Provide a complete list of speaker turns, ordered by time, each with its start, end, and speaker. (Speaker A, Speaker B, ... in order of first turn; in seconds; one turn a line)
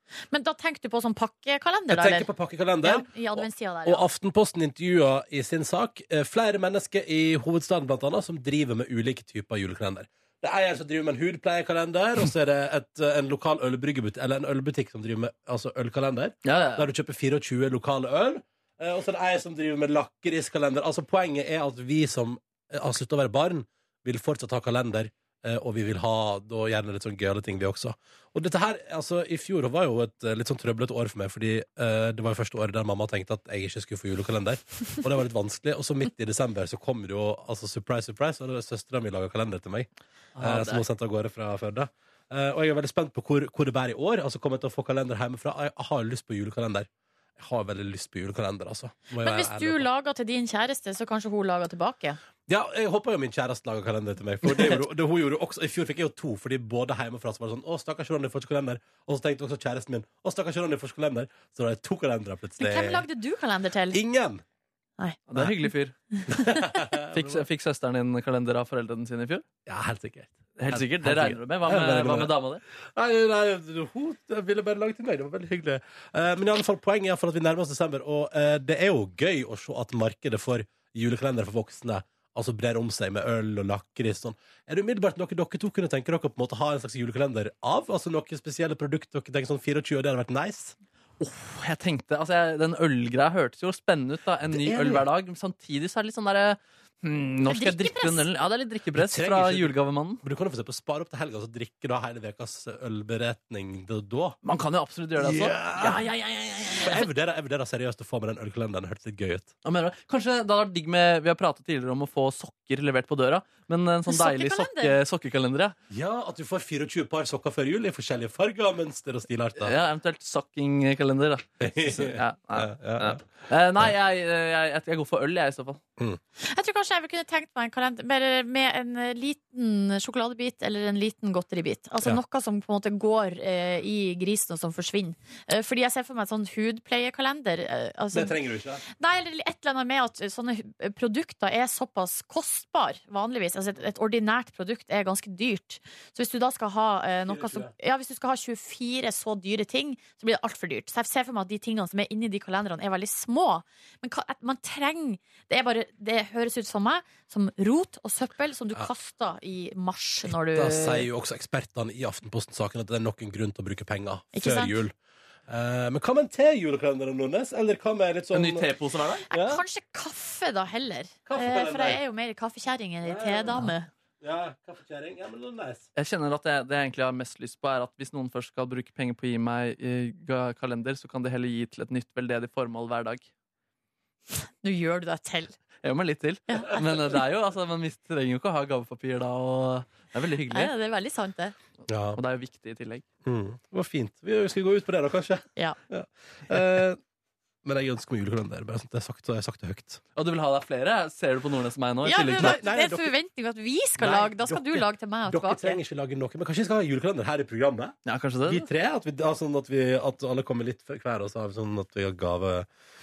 Speaker A: 0.3-2.3
Speaker B: 1.9-49.9
Speaker A: 2.8-4.0
Speaker C: 16.4-16.9
Speaker C: 40.4-40.8
Speaker A: 49.2-52.2
Speaker B: 52.5-63.1
Speaker A: 62.6-64.0
Speaker B: 63.9-64.4
Speaker C: 65.3-66.0
Speaker B: 66.3-67.5
Speaker C: 67.1-69.5
Speaker B: 69.7-72.3
Speaker C: 70.6-72.6
Speaker B: 73.0-90.8
Speaker C: 91.2-100.2
Speaker B: 94.5-95.1
Speaker A: 97.5-98.3
Speaker B: 99.0-104.4
Speaker C: 104.4-107.1
Speaker B: 105.2-106.0
Speaker B: 106.7-109.5
Speaker C: 109.6-115.8
Speaker A: 114.1-115.0
Speaker B: 115.9-119.8
Speaker C: 119.6-125.8
Speaker B: 121.6-123.2
Speaker A: 126.4-138.4
Speaker B: 138.1-138.8
Speaker A: 138.9-161.1
Speaker B: 147.3-147.7
Speaker B: 160.3-164.9
Speaker A: 164.3-164.8
Speaker B: 165.5-168.7
Speaker C: 168.3-169.3
Speaker B: 169.3-169.6
Speaker A: 169.3-173.9
Speaker B: 171.3-172.0
Speaker B: 173.0-173.7
Speaker B: 174.2-175.8
Speaker C: 176.0-183.3
Speaker A: 184.4-185.6
Speaker C: 185.8-190.7
Speaker A: 186.5-186.8
Speaker A: 190.5-191.5
Speaker B: 191.9-192.2
Speaker C: 192.2-193.0
Speaker B: 193.2-197.0
Speaker B: 197.6-200.0
Speaker C: 200.2-202.6
Speaker A: 202.0-205.8
Speaker B: 202.3-203.1
Speaker B: 204.0-212.7
Speaker C: 208.1-208.7